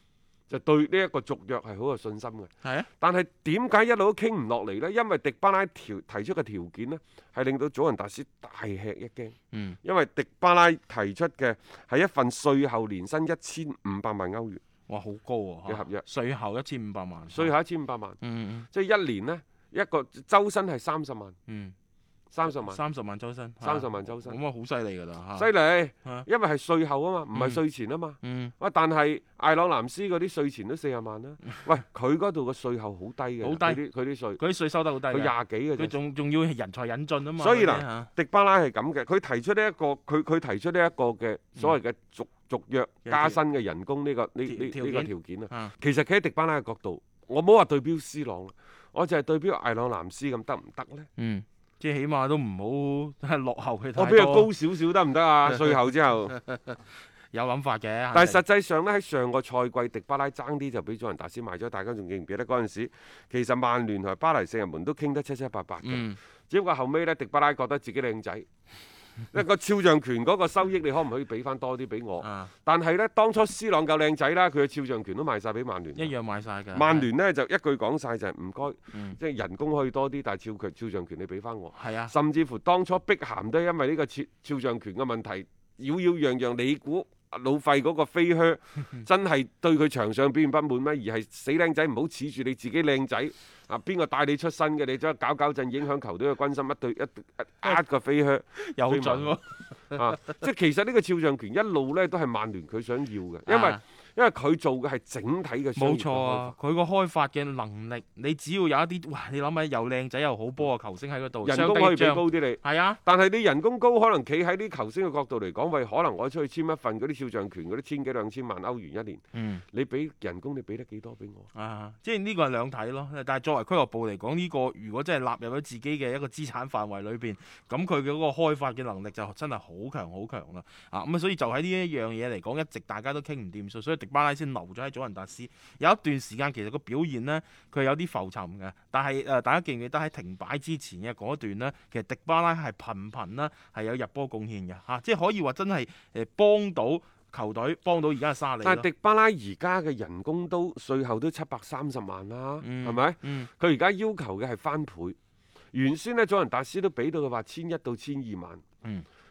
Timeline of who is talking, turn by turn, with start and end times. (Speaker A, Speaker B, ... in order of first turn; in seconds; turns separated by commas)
Speaker A: 0.5-14.6, Speaker B: 2.6-2.9, Speaker B: 9.5-9.8, Speaker B: 14.9-17.5, Speaker A: 15.7-16.0, Speaker A: 17.3-18.2, Speaker B: 18.2-18.7, Speaker A: 18.7-21.4, Speaker B: 21.5-21.7, Speaker A: 22.3-22.8, Speaker B: 22.5-25.5, Speaker A: 23.6-24.4, Speaker A: 25.4-34.4, Speaker B: 27.3-27.6, Speaker B: 28.2-28.5, Speaker B: 33.4-33.8, Speaker B: 34.4-38.1, Speaker A: 35.1-36.0, Speaker A: 37.4-51.1, Speaker B: 43.1-43.4, Speaker B: 44.5-45.7, Speaker B: 51.2-54.5, Speaker A: 54.0-56.4, Speaker B: 56.3-56.8, Speaker B: 57.3-58.4, Speaker A: 58.1-68.5, Speaker B: 65.8-66.2, Speaker A: 69.3-76.1, Speaker B: 72.2-72.5, Speaker B: 76.0-77.1, Speaker A: 76.7-99.4, Speaker B: 78.9-79.2, Speaker B: 81.7-82.1, Speaker B: 98.6-100.4, Speaker A: 99.9-106.5, Speaker B: 103.5-103.8, Speaker B: 105.8-113.0, Speaker A: 111.4-121.5, Speaker B: 119.3-119.7, Speaker B: 121.5-148.9, Speaker A: 148.6-155.2, Speaker B: 152.6-153.5, Speaker A: 155.7-158.6